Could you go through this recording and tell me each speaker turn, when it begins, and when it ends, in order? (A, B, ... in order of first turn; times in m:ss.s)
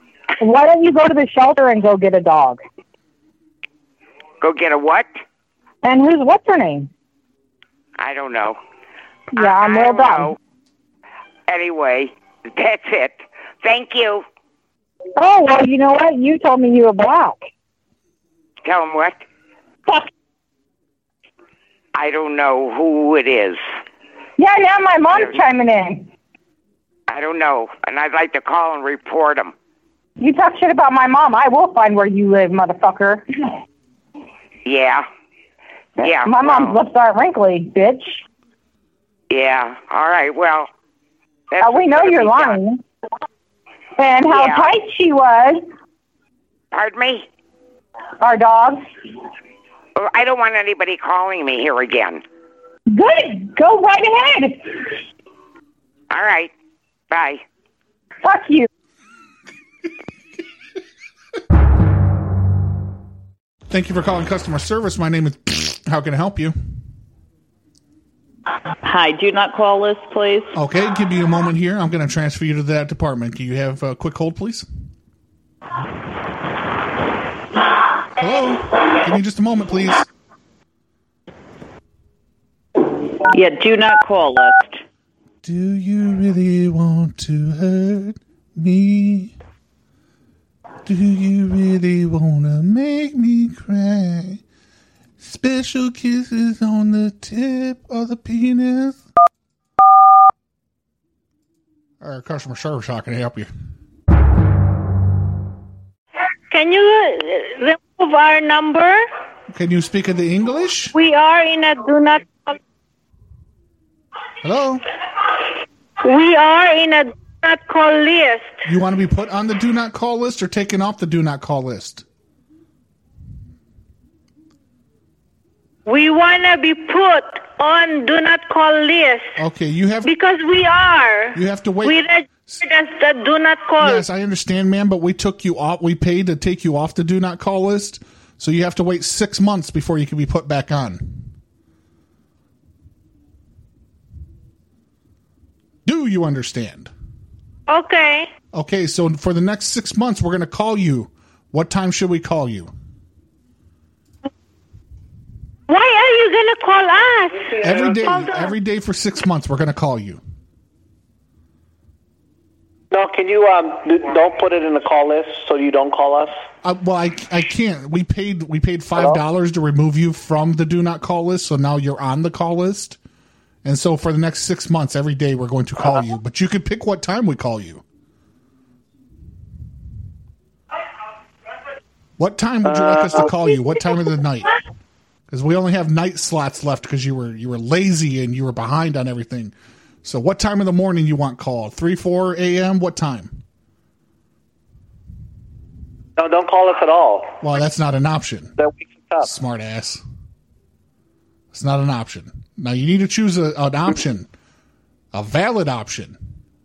0:00.4-0:02.6 A
0:04.4-0:05.2 B
0:05.8-0:06.9 A
0:08.0-0:08.6 B
0:09.3-0:10.4 A
0:09.4-0:10.4 B
0:11.5-0:14.2 B
0:15.2-0:17.4 A
0:18.6-0:19.2 B
0:21.9-0:23.6 B
0:24.4-0:26.1 A
0:27.1-0:29.5 B
0:30.2-0:33.2 A
0:34.6-0:35.0 B
0:36.0-0:36.8 B
0:36.0-0:38.2 A
0:39.3-0:40.7 B
0:41.5-0:42.6 B
0:41.6-0:42.8 A
0:44.0-0:45.6 A
0:44.3-0:44.7 B
0:46.7-0:47.3 B
0:48.2-0:48.8 A
0:50.0-0:52.2 B
0:52.9-0:54.9 A
0:56.1-0:56.5 B
0:57.1-0:57.4 B
0:58.2-0:58.7 A
1:03.7-1:06.5 C
1:08.8-1:10.5 D
1:10.5-1:14.6 C
1:18.2-1:20.1 C
1:23.3-1:24.8 D
1:25.4-1:29.3 C
1:30.8-1:34.4 C
1:35.2-1:39.0 C
1:42.0-1:43.5 C
1:46.5-1:49.0 E
1:49.5-1:50.9 C
1:50.9-1:52.6 E
1:54.4-1:54.8 C
1:56.0-1:58.6 E
1:58.6-2:02.0 C
2:05.8-2:09.3 E
2:09.4-2:10.1 C
2:10.0-2:14.0 E
2:11.3-2:12.0 C
2:13.8-2:21.3 C
2:25.8-2:26.9 C
2:27.7-2:28.3 E
2:28.5-2:32.7 C
2:35.7-2:37.5 E
2:37.6-2:40.2 C
2:38.0-2:38.4 E
2:42.9-2:46.3 F
2:46.6-2:53.0 C
2:53.6-2:57.8 C
3:02.2-3:04.5 C
3:02.6-3:03.3 F
3:05.3-3:13.4 C
3:16.2-3:17.4 F
3:17.4-3:18.5 C
3:18.6-3:19.3 F
3:19.2-3:20.0 C
3:21.5-3:24.3 C
3:25.1-3:26.2 C